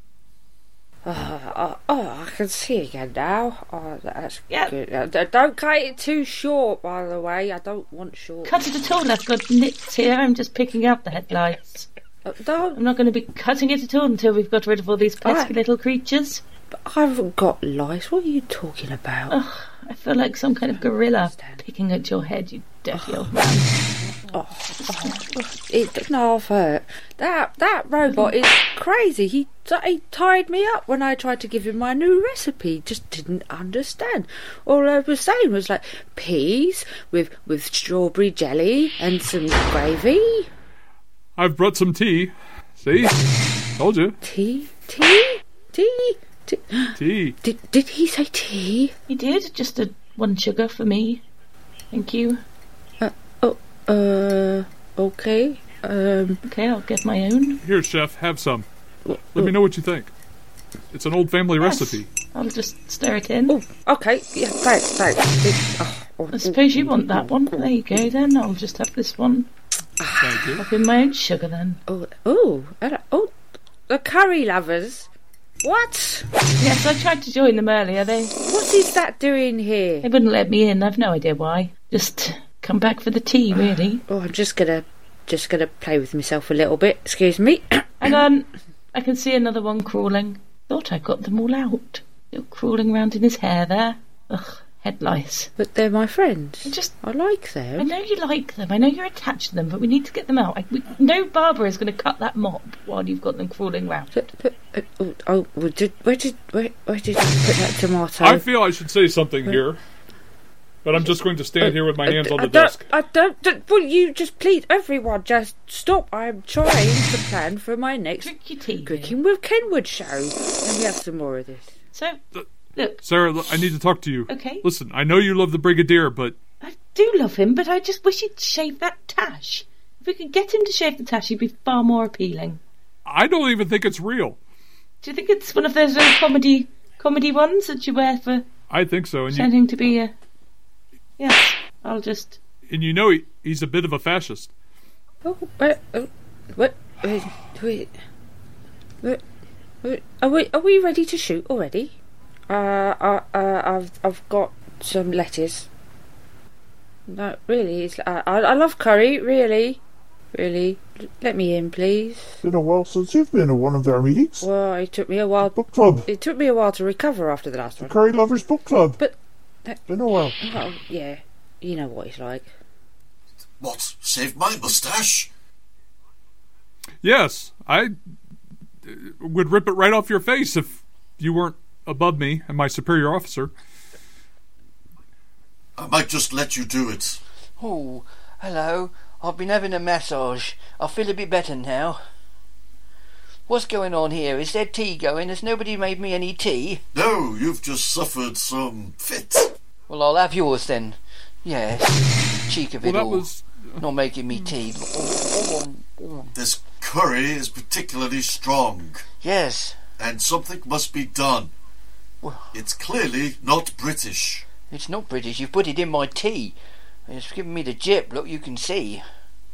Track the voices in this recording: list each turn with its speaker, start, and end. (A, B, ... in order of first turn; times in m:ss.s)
0:01.0-0:08.6 A
0:08.4-0:11.9 B
0:12.2-0:12.8 A
0:12.8-0:16.4 B
0:15.2-0:15.5 A
0:16.7-0:19.4 A
0:19.3-0:23.7 B
0:21.0-0:21.6 A
0:22.9-0:23.3 A
0:24.3-0:40.5 A
0:24.8-0:25.2 B
0:28.1-0:28.3 B
0:41.4-0:43.2 C
0:43.8-0:44.2 C
0:44.2-0:48.9 A
0:47.0-0:47.4 C
0:49.1-0:51.2 B
0:51.9-0:52.4 B
0:53.0-0:56.4 A
0:56.4-0:57.6 B
0:57.6-0:58.7 C
0:59.1-0:59.5 A
0:59.4-1:00.1 C
1:00.9-1:02.1 C
1:01.6-1:03.6 B
1:03.5-1:07.7 A
1:06.3-1:09.5 B
1:10.0-1:10.6 A
1:10.2-1:10.6 C
1:10.6-1:11.8 B
1:11.9-1:13.3 A
1:13.9-1:15.1 A
1:15.6-1:16.3 A
1:16.6-1:18.4 B
1:18.4-1:20.1 A
1:20.0-1:24.0 B
1:24.1-1:28.2 A
1:28.0-1:35.5 B
1:35.6-1:37.9 A
1:36.7-1:36.9 B
1:37.8-1:44.1 B
1:44.1-1:48.5 A
1:48.2-1:49.8 C
1:50.8-1:52.9 C
1:51.6-1:58.3 A
1:58.2-1:59.2 B
1:58.8-2:01.7 A
2:01.9-2:02.2 B
2:02.8-2:03.0 B
2:03.0-2:06.4 C
2:04.3-2:04.6 B
2:06.6-2:12.6 B
2:13.0-2:14.4 C
2:15.0-2:18.5 B
2:18.7-2:19.5 C
2:19.3-2:20.1 B
2:21.2-2:22.4 B
2:22.7-2:24.5 C
2:25.2-2:27.9 A
2:29.8-2:32.0 A
2:32.5-2:35.7 A
2:37.1-2:39.8 A
2:40.3-2:42.4 A
2:42.4-2:44.5 D
2:44.4-2:48.0 A
2:45.4-2:46.1 D
2:47.8-2:49.0 D
2:49.0-2:49.8 A
2:49.9-2:50.4 D
2:50.4-2:52.5 A
2:53.6-2:55.3 E
2:57.0-2:57.9 C
2:58.8-3:03.5 C
3:05.8-3:07.2 E
3:07.6-3:12.0 F
3:13.5-3:16.8 F
3:16.9-3:19.5 E
3:19.9-3:26.3 F
3:22.8-3:23.8 C
3:26.4-3:29.0 E
3:29.2-3:29.8 F
3:30.0-3:31.5 E
3:32.2-3:32.6 F
3:32.5-3:34.5 E
3:34.7-3:36.6 F
3:37.1-3:39.0 F